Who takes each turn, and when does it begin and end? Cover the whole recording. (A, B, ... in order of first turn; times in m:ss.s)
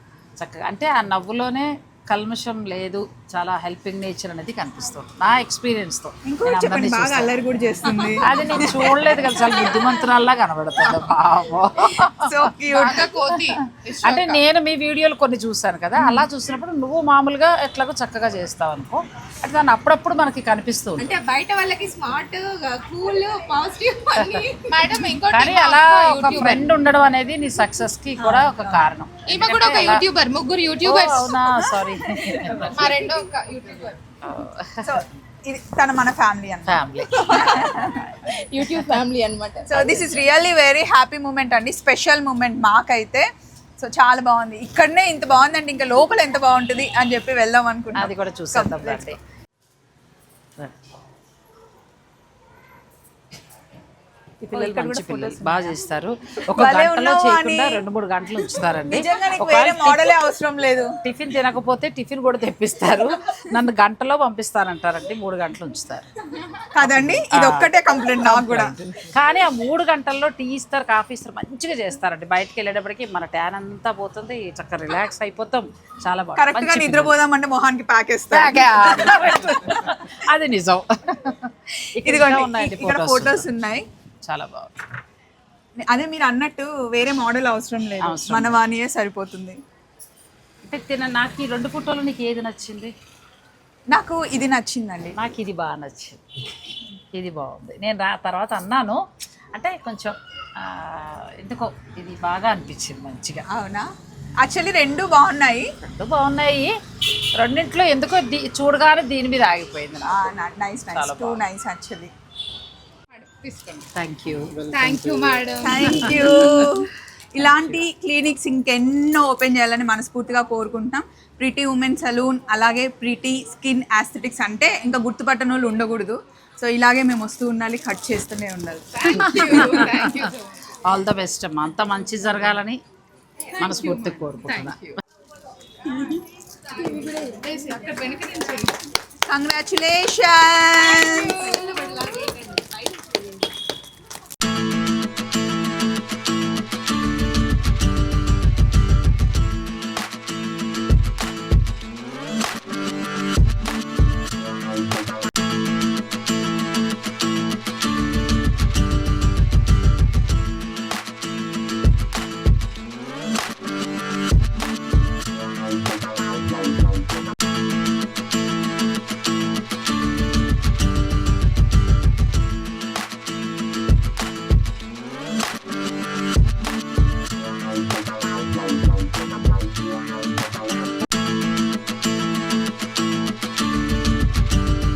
0:00.4-0:07.4 A
0:06.3-0:09.9 B
0:07.9-0:13.5 A
0:12.1-0:13.1 B
0:12.7-0:14.4 C
0:14.0-0:21.2 A
0:16.0-0:16.3 B
0:21.0-0:24.4 D
0:22.0-0:22.8 C
0:24.1-0:24.5 A
0:24.2-0:26.7 C
0:25.3-0:30.0 A
0:28.2-0:28.9 B
0:29.3-0:31.4 C
0:30.8-0:32.9 A
0:31.6-0:33.0 B
0:32.7-0:34.0 C
0:34.2-0:35.0 A
0:34.8-0:38.1 B
0:36.7-0:37.4 A
0:37.2-0:40.2 C
0:39.7-0:43.3 B
0:43.8-0:49.2 B
0:48.0-0:49.2 A
0:54.4-0:55.8 B
0:54.5-1:00.0 A
0:56.5-0:57.8 B
0:58.9-1:00.9 B
1:01.0-1:06.1 A
1:06.8-1:08.8 B
1:06.8-1:17.2 A
1:16.4-1:19.8 B
1:18.3-1:23.5 A
1:22.0-1:23.8 B
1:24.3-1:24.8 A
1:25.9-1:29.6 B
1:28.0-1:28.6 A
1:30.7-1:32.9 A
1:33.9-1:35.2 B
1:35.2-1:36.2 A
1:37.1-1:39.0 A
1:39.6-1:43.4 A
1:43.5-1:43.9 B
1:44.4-1:45.7 B
1:45.8-1:46.7 A
1:47.4-1:50.3 A
1:50.0-1:52.1 B
1:50.9-1:51.4 A
1:53.1-1:53.9 C
1:54.0-1:54.7 A
1:54.7-1:56.7 C
1:55.6-2:09.9 B
1:56.2-1:56.7 A
2:08.9-2:10.8 C
2:09.1-2:10.3 A
2:10.8-2:12.8 A
2:13.5-2:15.0 C
2:13.6-2:14.8 A
2:15.8-2:16.2 B
2:16.7-2:18.8 C
2:19.3-2:21.6 B
2:20.8-2:23.5 C